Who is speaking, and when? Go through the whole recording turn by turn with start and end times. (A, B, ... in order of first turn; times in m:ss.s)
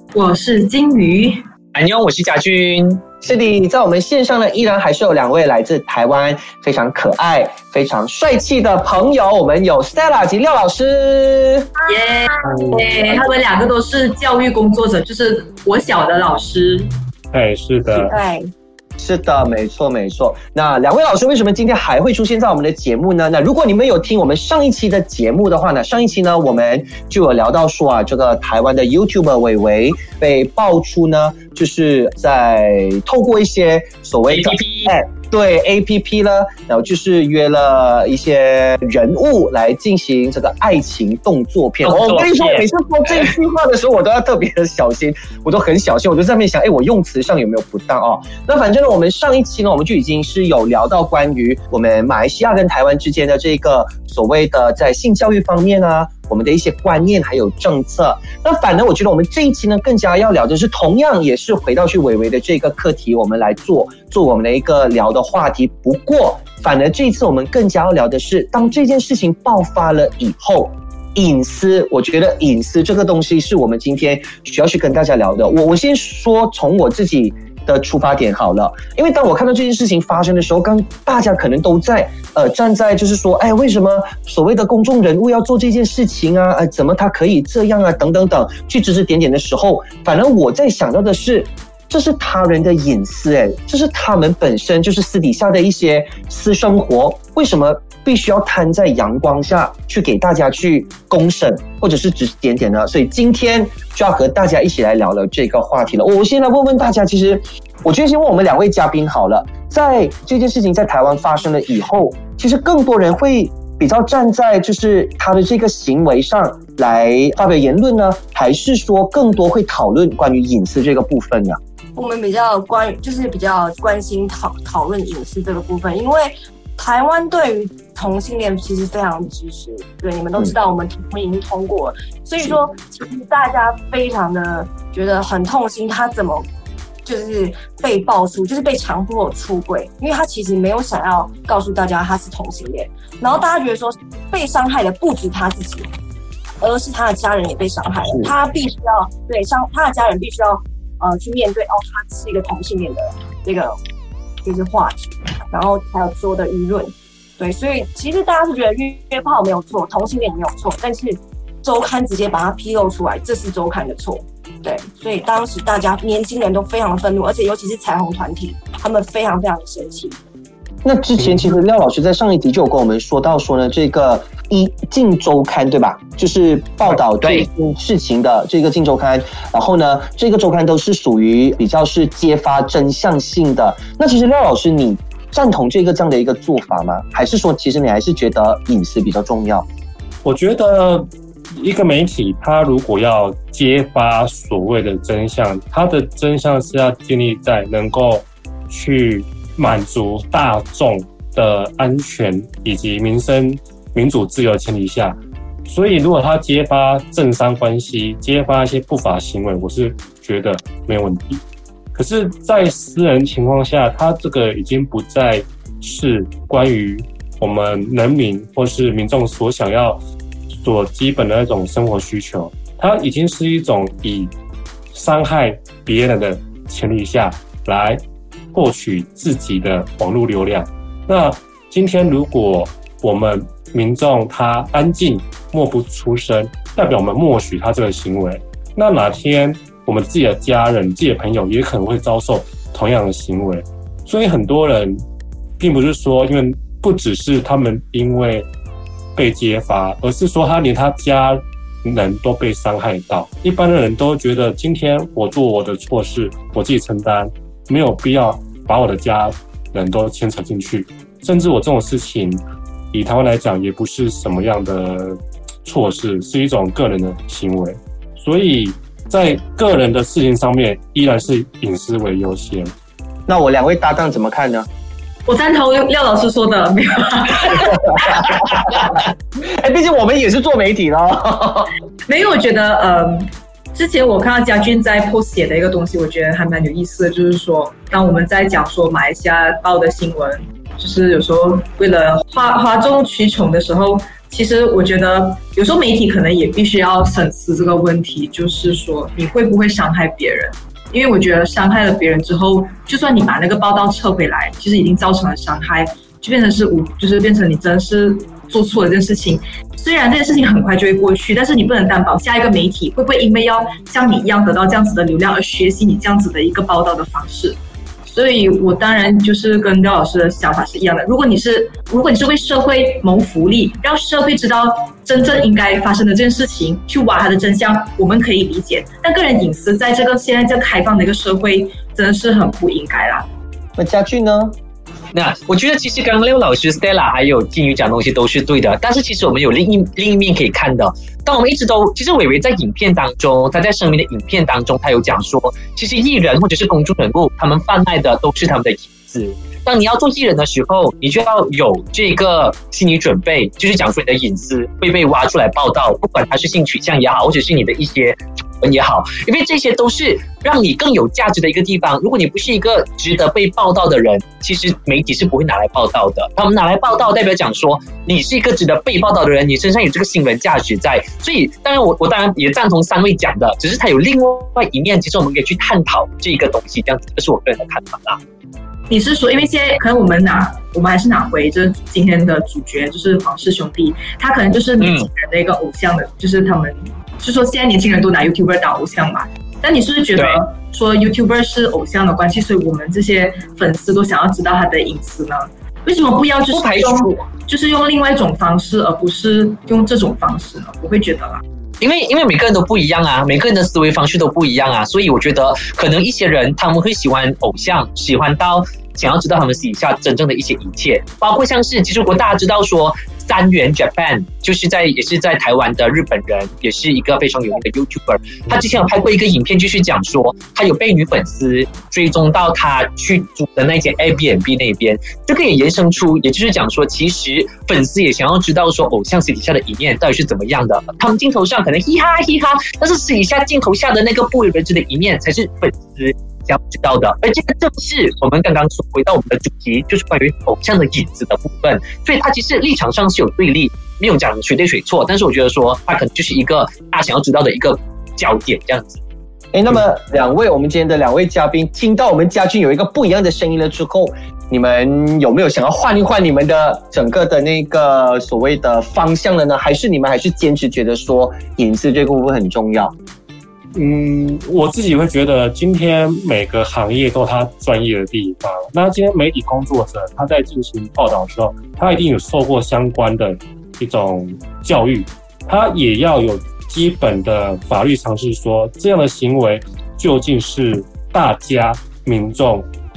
0:00.1-0:01.4 A
0:01.7-0:03.0 B
0:03.2-0:11.7 C
0:11.8-0:12.9 D
0:11.9-0:16.9 A
0:12.5-0:12.9 E
0:17.3-0:18.2 E
0:18.0-0:18.5 D
0:19.0-2:01.6 C
0:34.3-0:34.9 B
0:41.8-0:43.3 B
2:02.0-2:16.5 D
2:17.0-2:25.9 D
2:26.6-2:33.8 D
2:34.4-2:50.2 D
2:50.8-3:09.7 C
2:56.9-2:57.5 B
3:10.2-3:31.4 E
3:31.9-3:44.3 E
3:44.9-3:48.0 E
3:48.5-4:05.0 E
4:05.6-4:08.5 E
4:09.2-4:32.7 E
4:33.3-4:34.7 C
4:35.3-4:38.8 A
4:37.6-4:38.9 C
4:39.5-4:41.7 C
4:42.1-5:33.3 A
5:33.8-5:34.6 C
5:35.1-6:18.2 B
6:18.9-6:41.4 A
6:24.8-6:25.1 B
6:30.2-6:30.4 B
6:36.5-6:37.1 B
6:41.8-7:29.0 B
7:29.5-7:42.9 C
7:43.8-8:02.7 E